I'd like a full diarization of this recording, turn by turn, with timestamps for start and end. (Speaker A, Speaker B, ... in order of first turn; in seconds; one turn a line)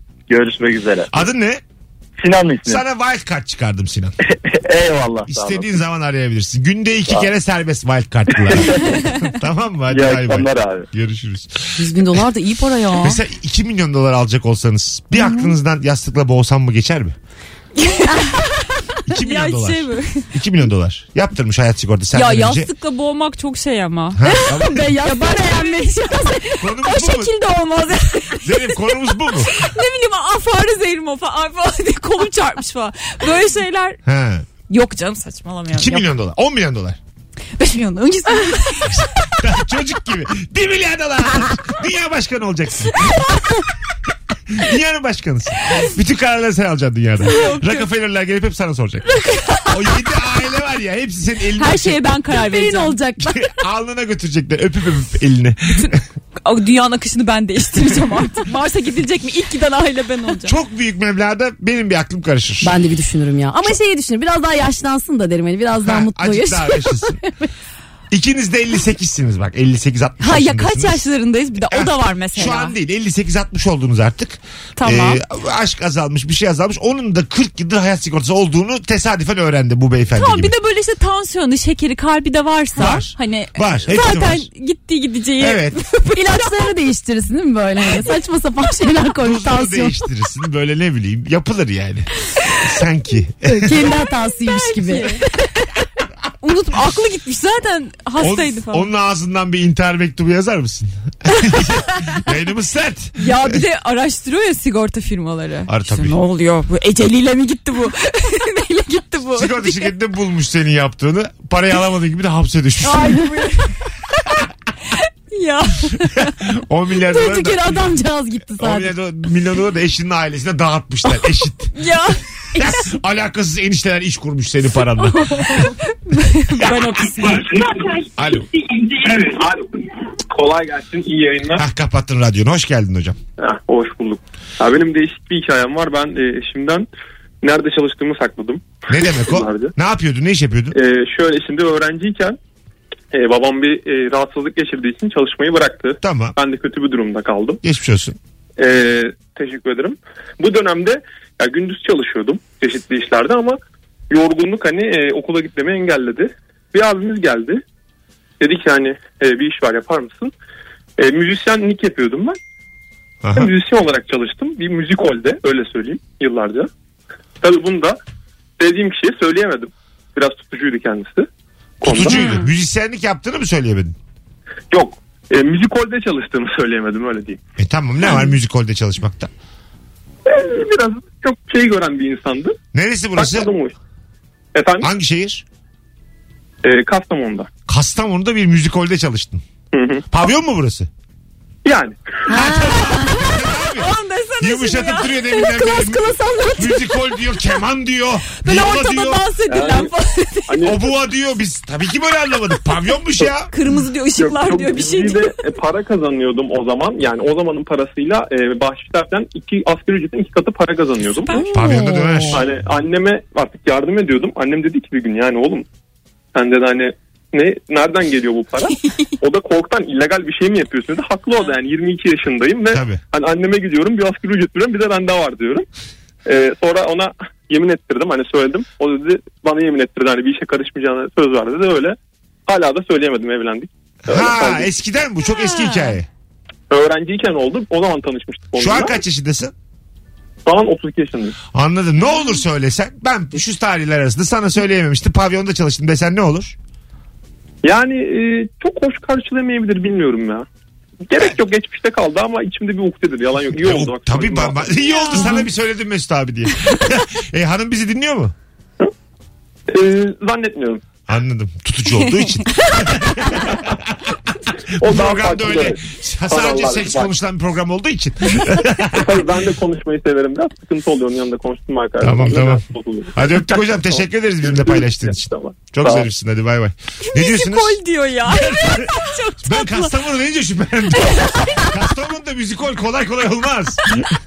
Speaker A: 0.3-1.2
Speaker B: 1.1-1.6
Speaker A: 2.2-2.8
Speaker B: 2.7-4.2
Speaker A: 4.7-5.7
Speaker B: 5.3-12.2
Speaker A: 9.9-10.9
Speaker C: 11.8-13.2
Speaker B: 13.0-17.2
Speaker D: 17.8-18.4
Speaker B: 19.1-22.7
Speaker D: 19.1-20.3
Speaker D: 22.1-28.8
Speaker B: 24.1-24.9
Speaker C: 24.3-26.6
Speaker B: 26.6-27.3
Speaker B: 28.4-29.5
Speaker D: 29.3-34.0
Speaker B: 34.1-34.5
Speaker D: 34.7-36.1
Speaker B: 35.7-37.0
Speaker D: 37.6-39.1
Speaker B: 38.9-43.2
Speaker B: 44.5-49.1
Speaker D: 47.2-47.9
Speaker D: 49.2-49.7
Speaker B: 49.6-52.1
Speaker D: 51.6-53.0
Speaker C: 52.3-53.3
Speaker B: 53.2-56.0
Speaker D: 55.8-60.6
Speaker B: 60.5-62.8
Speaker C: 62.6-67.5
Speaker B: 65.8-67.2
Speaker B: 68.1-71.0
Speaker D: 70.2-72.8
Speaker B: 71.7-80.5
Speaker D: 74.8-75.2
Speaker D: 80.2-86.7
Speaker B: 82.8-84.5
Speaker B: 85.4-85.8
Speaker C: 86.1-90.0
Speaker B: 89.2-94.0
Speaker C: 93.5-95.3
Speaker D: 93.9-95.2
Speaker D: 96.4-98.9
Speaker B: 98.2-103.6
Speaker D: 103.2-109.9
Speaker B: 105.7-106.2
Speaker B: 109.3-113.3
Speaker D: 112.8-113.8
Speaker D: 114.9-116.4
Speaker B: 116.2-117.9
Speaker C: 117.1-118.9
Speaker B: 118.6-121.7
Speaker D: 121.7-122.9
Speaker B: 122.5-125.3
Speaker C: 125.0-125.8
Speaker D: 125.7-127.5
Speaker E: 127.2-131.7
Speaker B: 128.2-128.5
Speaker B: 131.6-133.2
Speaker E: 133.4-136.9
Speaker E: 137.4-139.7
Speaker B: 138.9-140.8
Speaker E: 140.7-142.4
Speaker E: 143.1-147.6
Speaker B: 146.0-146.3
Speaker B: 147.6-148.2
Speaker E: 148.6-153.6
Speaker E: 154.1-157.6
Speaker E: 158.4-160.3
Speaker E: 161.0-162.4
Speaker B: 163.2-163.5
Speaker E: 163.3-166.7
Speaker E: 167.4-168.0
Speaker E: 168.6-171.3
Speaker E: 171.8-172.4
Speaker B: 171.8-174.0
Speaker D: 172.1-172.4
Speaker E: 174.7-177.4
Speaker B: 177.6-179.3
Speaker E: 180.2-182.6
Speaker B: 182.7-183.5
Speaker E: 183.2-183.8
Speaker E: 184.5-184.9
Speaker B: 184.8-185.4
Speaker E: 186.6-187.5
Speaker B: 187.7-189.4
Speaker E: 189.7-190.1
Speaker B: 190.1-190.9
Speaker E: 191.7-192.0
Speaker C: 192.3-193.2
Speaker B: 192.3-199.3
Speaker D: 192.4-197.3
Speaker D: 198.4-200.7
Speaker E: 199.5-199.9
Speaker E: 200.5-200.8
Speaker B: 200.6-203.5
Speaker D: 203.5-205.4
Speaker E: 204.2-211.3
Speaker C: 211.3-212.5
Speaker B: 211.5-212.4
Speaker E: 212.3-215.7
Speaker E: 216.3-225.7
Speaker B: 222.7-223.0
Speaker E: 226.2-234.7
Speaker B: 234.1-236.1
Speaker D: 235.3-236.0
Speaker E: 236.7-239.0
Speaker B: 238.6-239.5
Speaker E: 240.5-241.3
Speaker B: 241.5-246.6
Speaker E: 247.6-250.5
Speaker E: 251.1-254.9
Speaker B: 253.6-258.3
Speaker D: 254.9-255.4
Speaker E: 259.7-260.8
Speaker B: 261.1-264.2
Speaker E: 264.8-267.1
Speaker B: 264.8-269.1
Speaker E: 268.8-276.1
Speaker B: 272.0-272.6
Speaker B: 273.1-275.2
Speaker B: 275.7-284.0
Speaker D: 277.0-280.0
Speaker D: 281.0-281.7